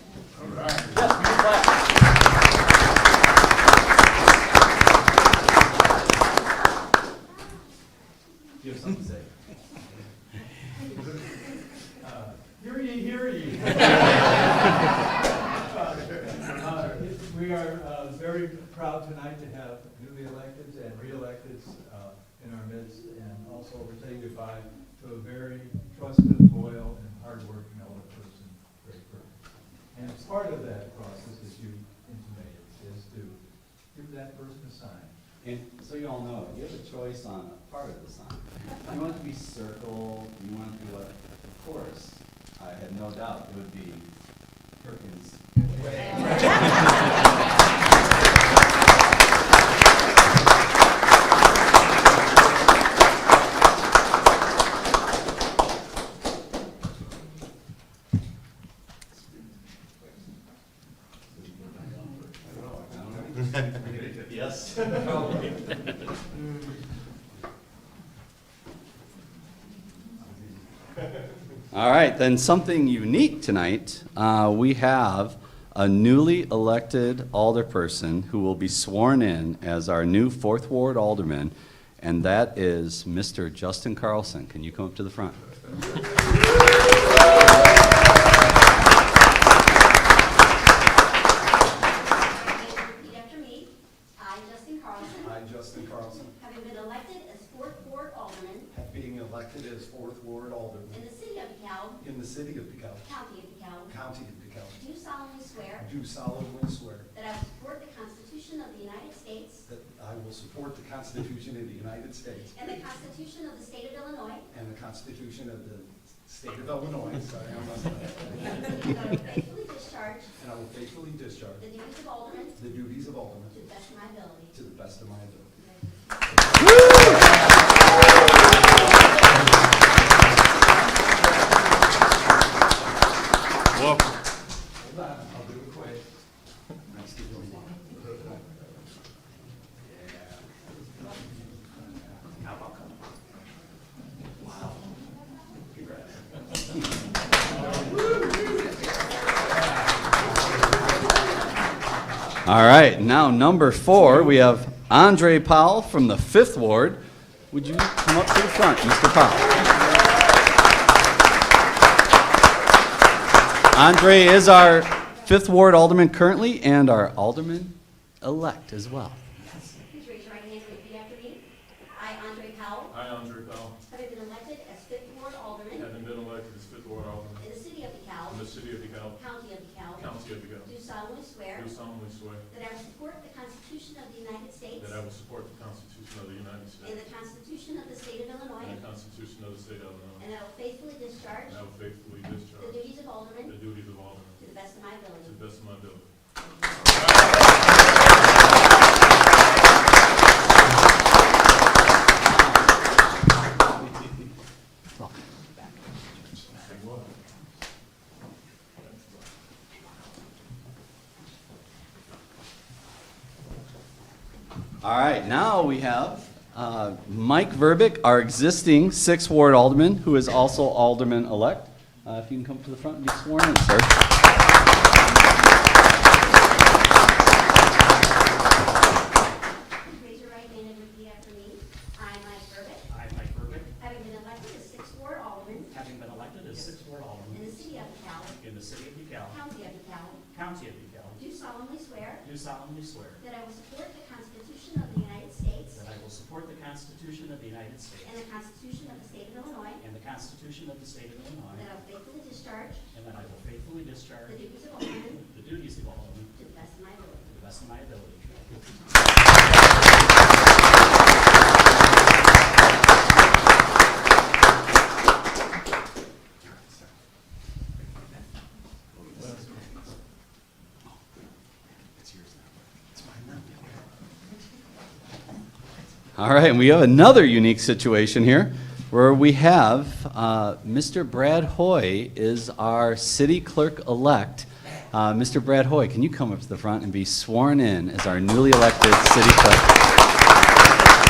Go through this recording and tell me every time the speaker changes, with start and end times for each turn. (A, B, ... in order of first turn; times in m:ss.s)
0:00.9-0:01.8 A
0:08.6-0:09.2 A
0:12.0-0:14.9 B
0:15.5-0:29.4 B
0:29.9-0:33.4 B
0:33.9-0:35.1 B
0:35.4-0:44.1 A
0:44.8-0:45.4 A
0:46.2-0:46.6 A
1:02.4-1:05.0 C
1:03.0-1:05.0 A
1:11.7-1:25.4 A
1:31.7-1:35.3 D
1:35.2-1:36.3 C
1:36.3-1:38.7 D
1:38.7-1:41.0 C
1:40.9-1:42.0 D
1:42.0-1:43.0 C
1:43.0-1:43.9 D
1:43.9-1:44.8 C
1:44.7-1:45.9 D
1:45.8-1:47.1 C
1:47.1-1:49.6 D
1:49.6-1:52.6 C
1:52.5-1:54.5 D
1:54.5-1:58.8 C
1:58.4-2:00.3 D
2:00.4-2:01.6 C
2:01.6-2:02.6 D
2:02.6-2:03.6 C
2:03.5-2:04.5 D
2:04.5-2:05.6 C
2:05.6-2:06.1 D
2:06.7-2:07.1 C
2:15.0-2:16.0 C
2:16.9-2:17.8 C
2:24.4-2:24.8 C
2:32.4-2:39.7 A
2:43.7-2:49.2 A
2:49.9-2:52.9 D
2:52.9-2:53.8 E
2:53.9-2:55.9 D
2:55.7-2:57.5 E
2:57.4-2:58.4 D
2:58.2-2:59.2 E
2:59.2-3:00.1 D
2:59.9-3:00.8 E
3:00.6-3:01.7 D
3:01.5-3:02.4 E
3:02.5-3:04.9 D
3:04.7-3:07.0 E
3:06.8-3:08.8 D
3:08.6-3:10.3 E
3:10.2-3:11.6 D
3:11.4-3:14.4 E
3:12.6-3:13.6 D
3:14.4-3:15.4 D
3:15.2-3:16.0 E
3:25.0-3:25.8 F
3:26.5-3:27.0 E
3:34.8-3:44.0 A
3:49.8-3:52.9 D
3:52.9-3:53.7 F
3:53.8-3:55.7 D
3:55.7-3:59.4 F
3:57.3-3:58.4 D
3:59.2-4:00.2 D
4:00.3-4:01.2 F
4:01.1-4:02.3 D
4:02.2-4:03.2 F
4:03.2-4:05.8 D
4:05.7-4:08.2 F
4:08.0-4:09.8 D
4:09.8-4:11.7 F
4:11.5-4:12.8 D
4:12.9-4:14.4 F
4:14.2-4:15.2 D
4:15.3-4:16.3 F
4:16.3-4:17.4 D
4:17.3-4:18.4 F
4:32.0-4:33.8 C
4:36.1-4:49.7 A